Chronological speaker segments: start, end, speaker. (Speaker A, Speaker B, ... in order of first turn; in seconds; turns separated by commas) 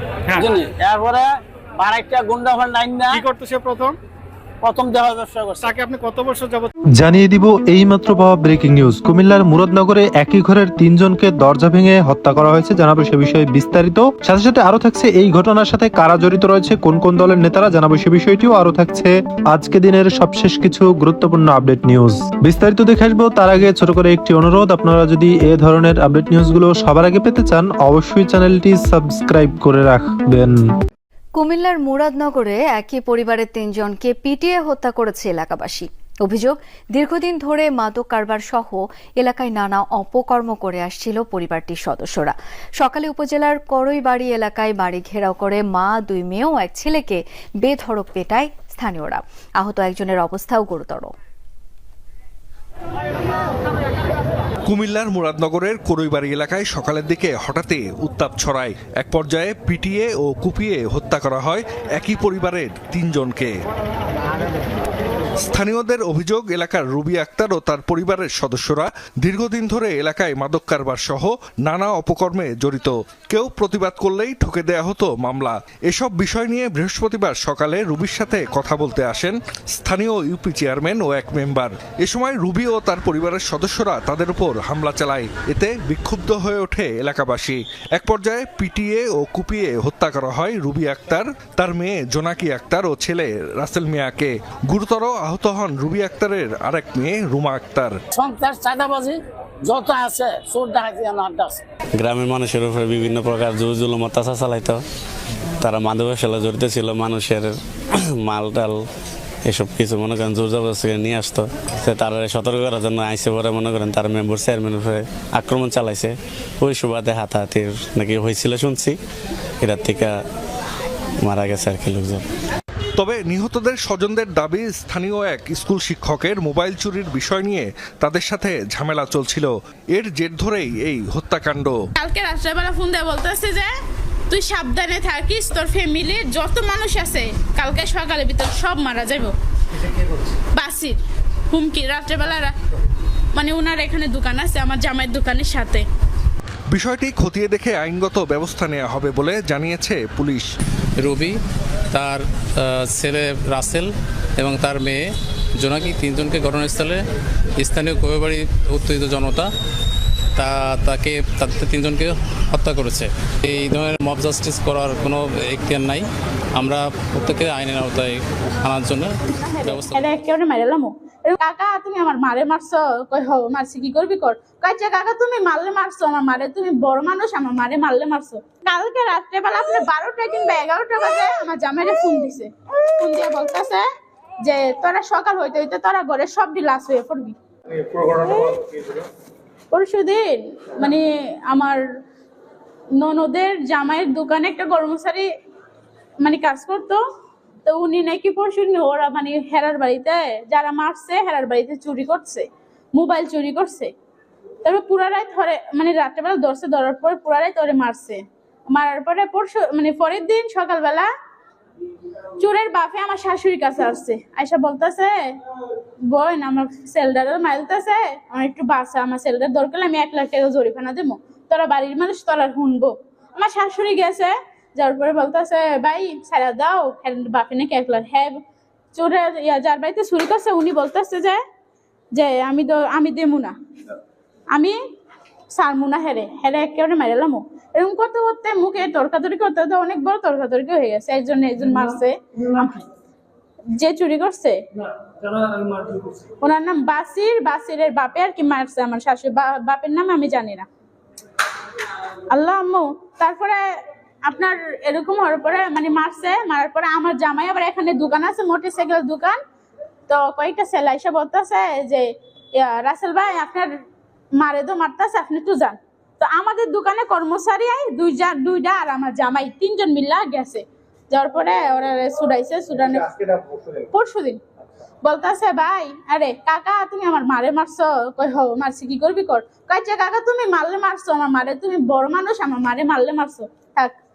Speaker A: 0.4-1.3, Speaker A: 1.8-3.1, Speaker B: 3.1-4.0, Speaker A: 4.6-5.6, Speaker B: 5.6-6.7, Speaker C: 7.0-30.6, Speaker D: 31.4-51.1, Speaker E: 54.6-63.5, Speaker E: 65.4-97.9, Speaker A: 98.2-101.6, Speaker F: 101.9-104.8, Speaker F: 105.6-107.6, Speaker F: 108.2-108.8, Speaker F: 109.5-119.0, Speaker F: 119.6-120.2, Speaker F: 121.2-122.2, Speaker E: 123.0-131.7, Speaker G: 131.9-133.7, Speaker G: 134.3-139.3, Speaker G: 140.5-141.0, Speaker G: 141.5-142.5, Speaker G: 143.3-145.9, Speaker E: 146.7-150.5, Speaker H: 151.0-151.3, Speaker H: 151.9-157.0, Speaker H: 157.6-159.5, Speaker H: 160.4-170.1, Speaker G: 169.3-183.8, Speaker G: 184.4-187.3, Speaker B: 188.0-188.7, Speaker G: 189.7-191.8, Speaker G: 192.9-195.3, Speaker G: 196.2-197.0, Speaker G: 197.6-203.9, Speaker G: 204.6-211.1, Speaker G: 212.4-215.3, Speaker G: 216.0-228.4, Speaker G: 228.9-231.4, Speaker G: 232.1-233.6, Speaker G: 235.5-242.8, Speaker G: 243.7-244.6, Speaker G: 246.4-250.7, Speaker G: 252.3-259.4, Speaker G: 260.1-263.7, Speaker G: 264.4-273.1, Speaker B: 273.0-273.7, Speaker G: 273.9-274.4, Speaker G: 275.0-283.9